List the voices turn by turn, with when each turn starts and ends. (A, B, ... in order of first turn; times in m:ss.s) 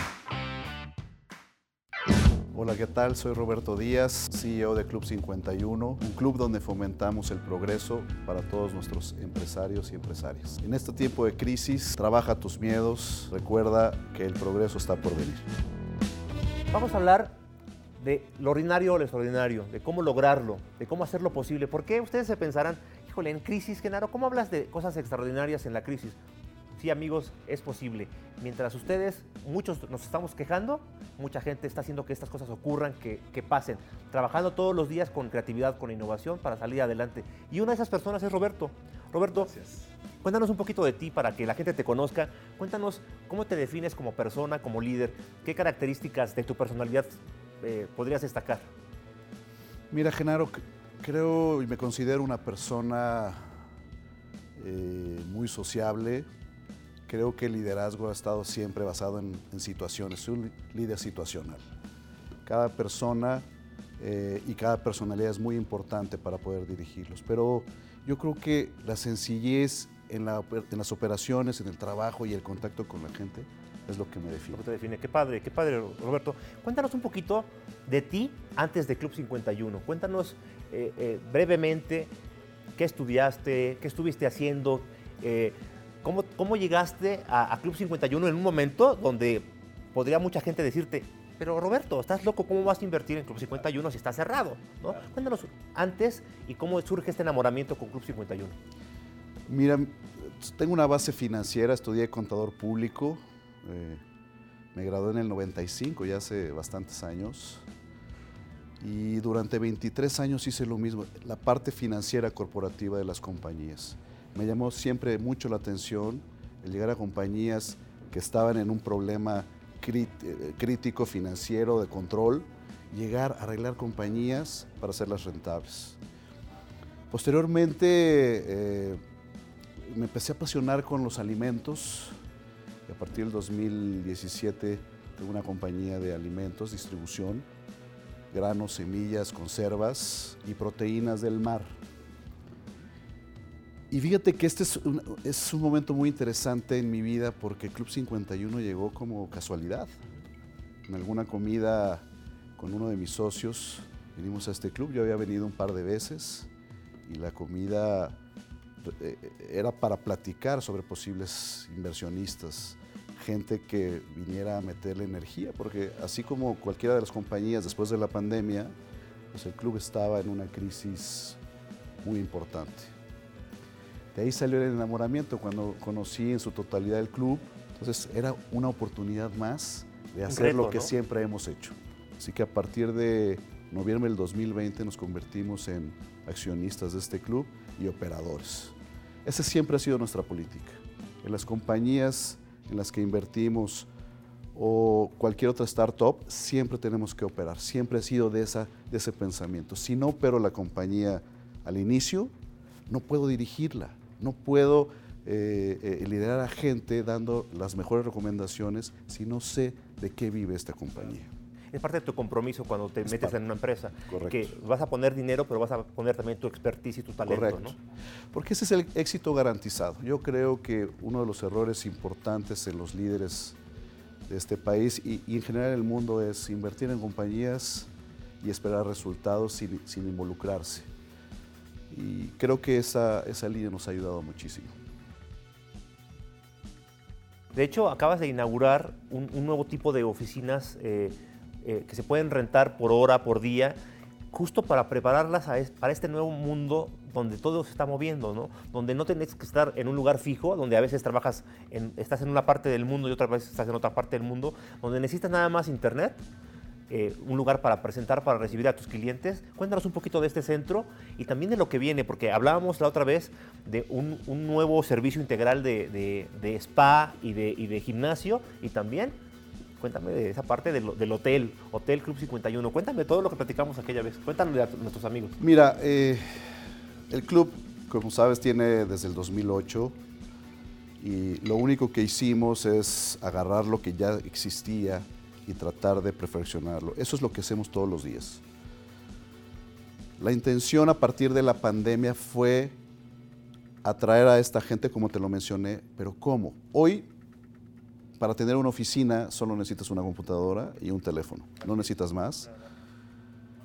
0:02.5-0:15.5 A
0:16.7-0:17.4 B
0:18.0-0:26.2 B
0:26.8-0:39.5 B
0:39.5-0:39.8 A
0:40.2-0:48.6 B
0:49.9-0:53.5 A
0:54.6-0:56.3 A
0:57.1-1:01.6 A
1:02.4-1:03.4 A
1:04.0-1:14.6 A
1:14.5-1:22.1 B
1:22.8-1:38.6 B
1:39.5-1:44.0 A
1:44.7-1:47.6 A
1:48.8-2:06.0 A
2:07.1-2:09.0 A
2:09.8-2:12.2 A
2:12.9-2:17.5 A
2:18.3-2:21.8 A
2:23.9-2:29.9 A
2:30.8-2:32.0 A
2:32.6-2:36.5 A
2:37.0-2:38.2 A
2:38.8-2:48.7 A
2:49.3-2:51.4 A
2:52.0-2:52.9 A
2:54.1-3:13.9 A
3:00.3-3:00.9 B
3:14.5-3:22.3 A
3:22.9-3:31.3 A
3:31.7-3:37.8 B
3:33.0-3:33.4 A
3:34.1-3:34.5 A
3:37.2-3:37.8 A
3:38.3-3:43.6 A
3:44.3-3:47.9 A
3:48.4-3:50.9 A
3:51.9-3:54.7 A
3:57.5-4:03.8 B
4:04.3-4:16.2 B
4:16.9-4:29.1 B
4:29.8-4:35.4 B
4:35.4-4:36.5 A
4:37.1-4:39.9 A
4:41.0-4:48.4 A
4:50.2-4:52.8 A
4:53.8-4:57.1 A
4:58.2-5:02.5 A